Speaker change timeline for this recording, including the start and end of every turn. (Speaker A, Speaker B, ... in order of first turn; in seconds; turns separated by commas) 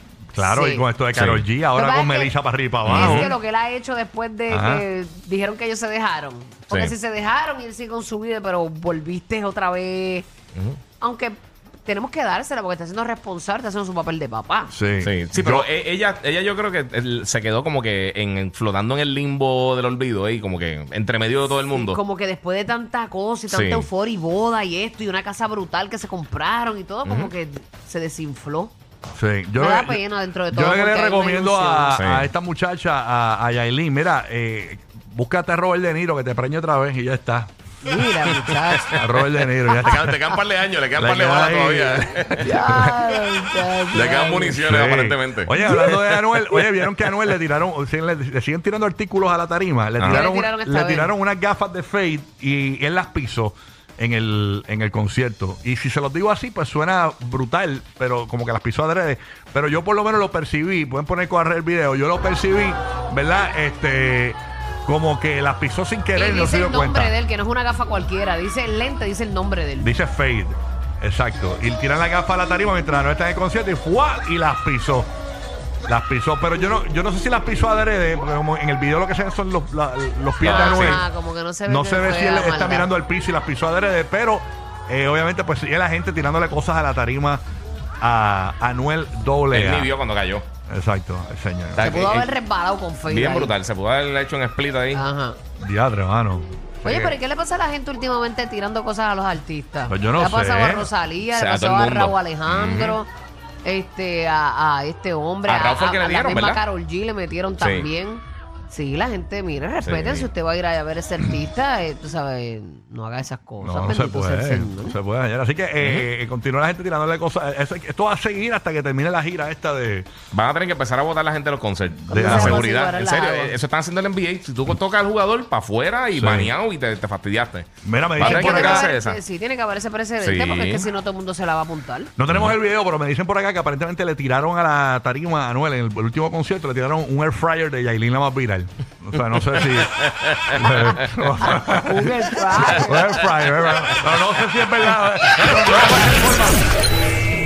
Speaker A: 0.3-3.4, Speaker B: 0.4-0.9, Speaker C: 1.1-1.4, Speaker B: 1.7-10.3, Speaker C: 2.9-3.3, Speaker A: 4.5-4.9, Speaker C: 6.7-6.9, Speaker C: 10.5-10.8, Speaker B: 11.0-14.7, Speaker A: 14.7-15.7, Speaker C: 15.0-22.0, Speaker B: 21.7-28.7, Speaker C: 23.5-23.9, Speaker C: 27.1-27.3, Speaker A: 29.1-37.5, Speaker B: 29.6-32.0, Speaker C: 31.9-32.3, Speaker B: 37.8-38.9, Speaker A: 38.9-40.2, Speaker C: 39.8-42.5, Speaker A: 41.0-43.2, Speaker B: 42.4-44.6, Speaker C: 43.9-46.4, Speaker A: 44.4-67.1, Speaker C: 50.0-50.2, Speaker B: 50.0-51.1, Speaker B: 66.2-69.9, Speaker A: 69.8-75.1, Speaker A: 75.9-81.1, Speaker C: 80.4-81.0, Speaker B: 80.4-82.9, Speaker A: 81.7-87.4, Speaker A: 88.0-89.9, Speaker C: 89.5-90.5, Speaker A: 90.7-92.0, Speaker C: 91.8-92.3, Speaker B: 91.8-93.6, Speaker C: 93.1-95.0, Speaker B: 94.9-95.4, Speaker A: 95.6-97.2, Speaker B: 96.8-103.1, Speaker A: 99.9-100.9, Speaker C: 101.3-103.0, Speaker B: 103.6-115.0, Speaker C: 105.5-106.6, Speaker C: 107.6-107.9, Speaker C: 109.8-110.3, Speaker A: 113.6-120.1, Speaker C: 115.8-116.1, Speaker C: 120.3-129.2, Speaker B: 122.1-123.6, Speaker A: 122.1-122.6, Speaker A: 126.1-126.5, Speaker A: 127.8-128.9, Speaker B: 128.2-132.1, Speaker C: 130.2-130.9, Speaker A: 132.2-146.6, Speaker C: 132.3-132.6, Speaker C: 140.2-140.5, Speaker B: 141.5-143.1